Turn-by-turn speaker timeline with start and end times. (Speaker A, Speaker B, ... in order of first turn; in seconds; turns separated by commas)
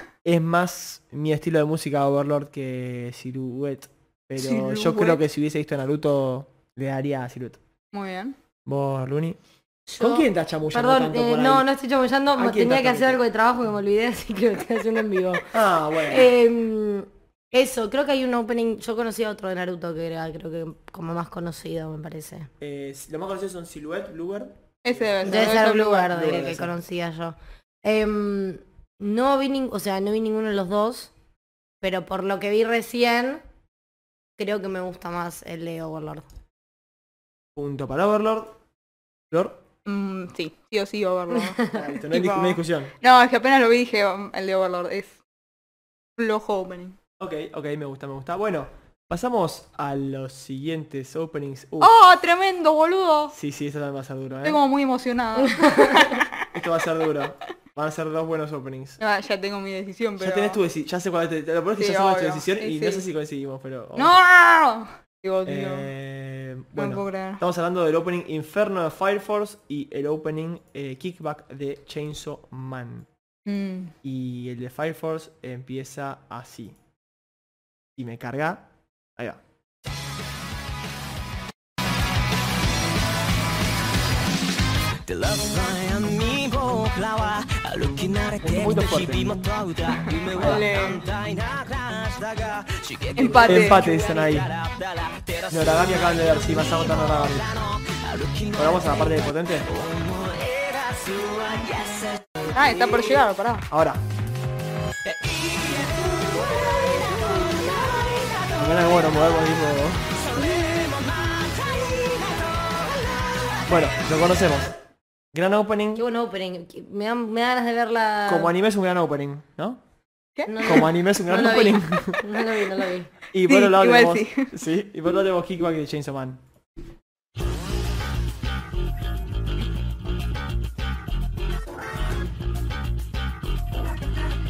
Speaker A: 0.2-7.6, Speaker B: 4.4-5.2, Speaker B: 7.9-8.3, Speaker A: 8.6-9.4, Speaker C: 9.9-15.5, Speaker A: 10.0-11.7, Speaker A: 12.3-13.2, Speaker A: 15.5-16.3, Speaker C: 16.1-22.5, Speaker A: 22.6-26.7, Speaker B: 24.8-26.2, Speaker C: 25.2-31.1, Speaker C: 31.8-33.4, Speaker C: 34.4-36.2, Speaker A: 37.5-38.6, Speaker A: 39.3-39.6, Speaker B: 39.9-45.2, Speaker A: 41.7-42.9, Speaker B: 46.2-47.0, Speaker A: 47.2-51.9, Speaker B: 51.8-53.3, Speaker A: 53.3-54.6, Speaker B: 54.4-56.3, Speaker C: 55.6-55.9, Speaker A: 56.5-59.0, Speaker B: 59.0-60.6, Speaker A: 60.2-64.2, Speaker B: 61.8-63.0, Speaker B: 64.0-65.9, Speaker A: 65.4-73.1, Speaker B: 66.8-67.4, Speaker B: 73.5-73.9, Speaker A: 74.0-76.8, Speaker A: 78.0-79.4, Speaker D: 85.0-103.2, Speaker A: 88.4-89.5, Speaker B: 90.1-91.0, Speaker A: 90.3-90.7, Speaker B: 93.2-93.8, Speaker A: 93.2-94.5, Speaker A: 95.5-97.5, Speaker A: 98.5-99.7, Speaker B: 102.5-103.7, Speaker A: 103.7-104.0, Speaker D: 105.0-109.1, Speaker A: 108.6-110.0, Speaker D: 110.2-113.6, Speaker A: 113.7-114.8, Speaker A: 115.3-116.0, Speaker C: 115.9-118.5, Speaker A: 118.2-119.8, Speaker B: 120.4-120.9, Speaker C: 120.5-123.1, Speaker A: 120.6-122.2, Speaker A: 123.3-126.4, Speaker B: 123.5-124.5